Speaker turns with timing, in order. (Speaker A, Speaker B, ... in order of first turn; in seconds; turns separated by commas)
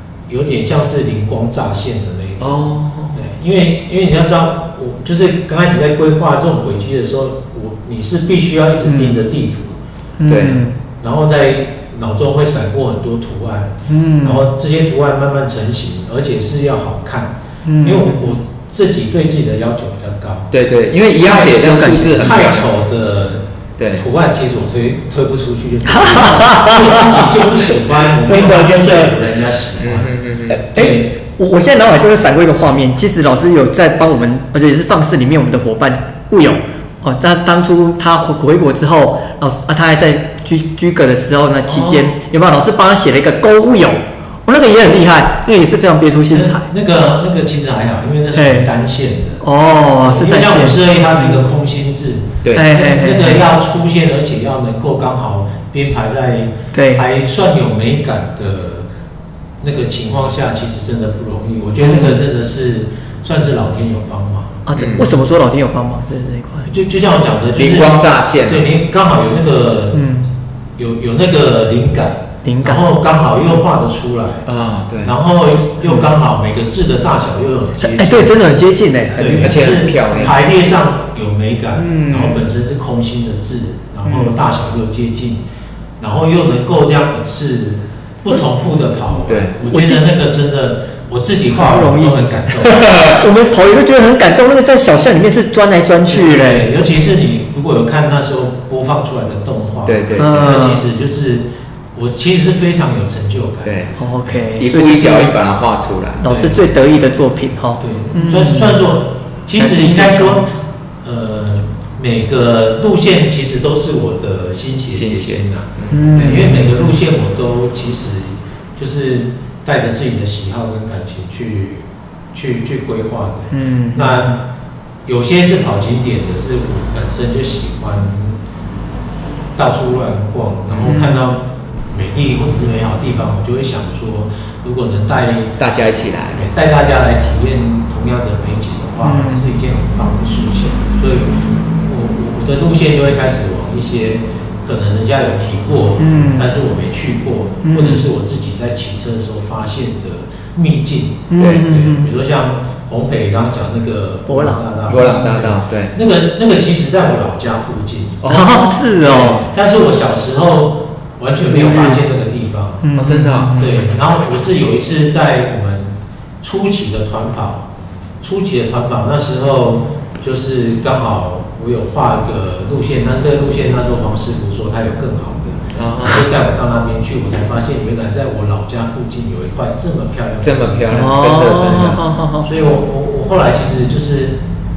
Speaker A: 0.3-9.8, Speaker B: 2.4-3.1, Speaker C: 8.8-9.2, Speaker C: 10.2-10.8, Speaker B: 10.2-10.6, Speaker A: 11.0-20.5, Speaker C: 13.9-14.4, Speaker C: 17.6-18.4, Speaker B: 20.5-22.7, Speaker C: 21.2-22.4, Speaker A: 21.2-30.1, Speaker B: 23.8-24.0, Speaker C: 25.9-29.1, Speaker B: 29.8-30.6, Speaker C: 30.5-46.6, Speaker A: 30.7-31.1, Speaker A: 41.7-42.1, Speaker A: 46.3-49.4, Speaker C: 48.3-48.7, Speaker C: 49.4-51.4, Speaker A: 50.0-58.9, Speaker B: 52.4-52.7, Speaker C: 52.5-53.4, Speaker C: 56.7-57.0, Speaker A: 59.6-64.6, Speaker C: 61.8-62.2, Speaker C: 64.7-66.7, Speaker B: 64.7-65.1, Speaker A: 66.7-70.1, Speaker B: 67.5-68.7, Speaker C: 69.9-70.3, Speaker A: 70.8-74.4, Speaker C: 72.4-72.8, Speaker B: 74.5-75.1, Speaker A: 75.0-78.4, Speaker C: 75.8-76.1, Speaker C: 77.8-79.6, Speaker A: 79.1-85.4, Speaker B: 79.4-80.4, Speaker C: 81.8-82.4, Speaker C: 84.0-84.4, Speaker A: 86.0-93.2, Speaker B: 89.2-89.5, Speaker C: 89.7-90.0, Speaker C: 91.5-96.7, Speaker A: 96.0-104.4, Speaker B: 99.8-100.5, Speaker C: 100.2-100.8, Speaker B: 103.6-103.9, Speaker C: 104.0-105.3, Speaker B: 104.6-106.3, Speaker C: 106.2-108.8, Speaker A: 106.2-106.6, Speaker A: 107.8-110.5, Speaker C: 109.6-110.4, Speaker A: 111.0-124.4, Speaker B: 114.9-116.2, Speaker C: 115.9-116.9, Speaker C: 123.5-124.2, Speaker A: 125.0-128.3, Speaker A: 129.6-135.6, Speaker C: 130.8-131.3, Speaker B: 135.6-136.4, Speaker A: 136.3-162.9, Speaker C: 139.0-139.5, Speaker C: 146.0-146.5, Speaker C: 147.6-148.0, Speaker C: 151.3-152.1, Speaker B: 151.3-151.6, Speaker C: 154.3-154.6, Speaker B: 154.8-155.9, Speaker B: 158.2-158.7, Speaker C: 158.2-159.4, Speaker C: 161.4-162.0, Speaker C: 162.8-163.7, Speaker B: 163.0-163.5, Speaker A: 163.5-167.7, Speaker A: 168.2-181.2, Speaker B: 175.7-176.3, Speaker B: 180.4-182.0, Speaker C: 180.9-182.5, Speaker A: 181.7-184.4